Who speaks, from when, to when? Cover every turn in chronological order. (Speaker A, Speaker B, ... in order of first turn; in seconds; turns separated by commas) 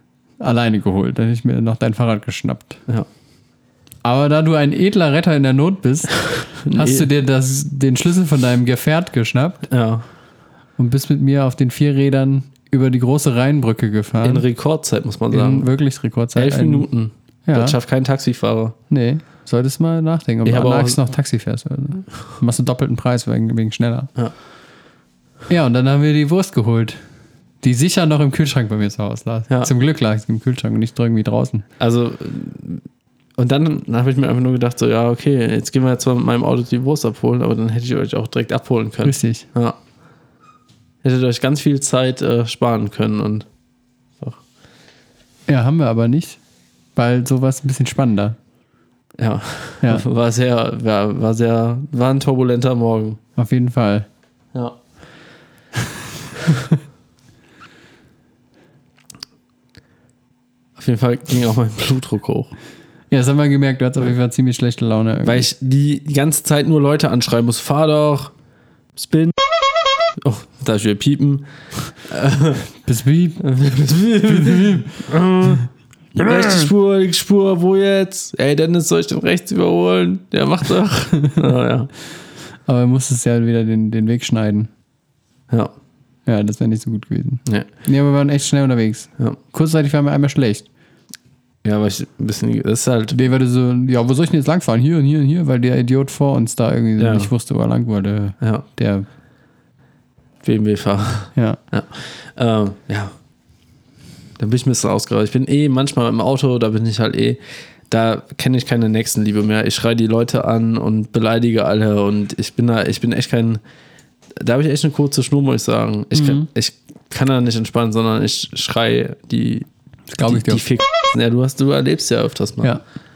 Speaker A: 0.4-2.8, Speaker A: 4.0-9.7, Speaker B: 6.7-7.1, Speaker B: 9.7-10.0, Speaker A: 10.8-14.4, Speaker B: 14.2-15.7, Speaker A: 15.3-16.9, Speaker B: 16.4-18.8, Speaker A: 17.5-17.8, Speaker A: 18.9-24.1, Speaker B: 20.4-21.0, Speaker A: 25.5-27.0, Speaker A: 27.6-31.7, Speaker B: 31.8-32.8, Speaker B: 33.4-39.8, Speaker A: 39.0-39.5, Speaker B: 41.0-43.5, Speaker A: 45.5-46.4, Speaker A: 47.0-48.4, Speaker B: 49.2-53.2, Speaker A: 53.4-54.1, Speaker B: 60.8-62.5, Speaker A: 63.1-65.5, Speaker B: 65.2-68.3, Speaker B: 69.0-69.4, Speaker B: 70.1-71.5, Speaker B: 72.0-72.7, Speaker A: 72.9-73.4, Speaker B: 73.4-81.9, Speaker A: 74.2-75.0, Speaker A: 82.7-84.7, Speaker A: 86.3-90.7, Speaker B: 91.6-93.2, Speaker A: 93.1-99.1, Speaker B: 97.0-97.3, Speaker B: 98.4-98.7, Speaker B: 100.4-103.1, Speaker B: 104.4-113.6, Speaker B: 114.4-119.7, Speaker A: 116.1-116.5, Speaker A: 120.1-120.6, Speaker B: 120.3-122.8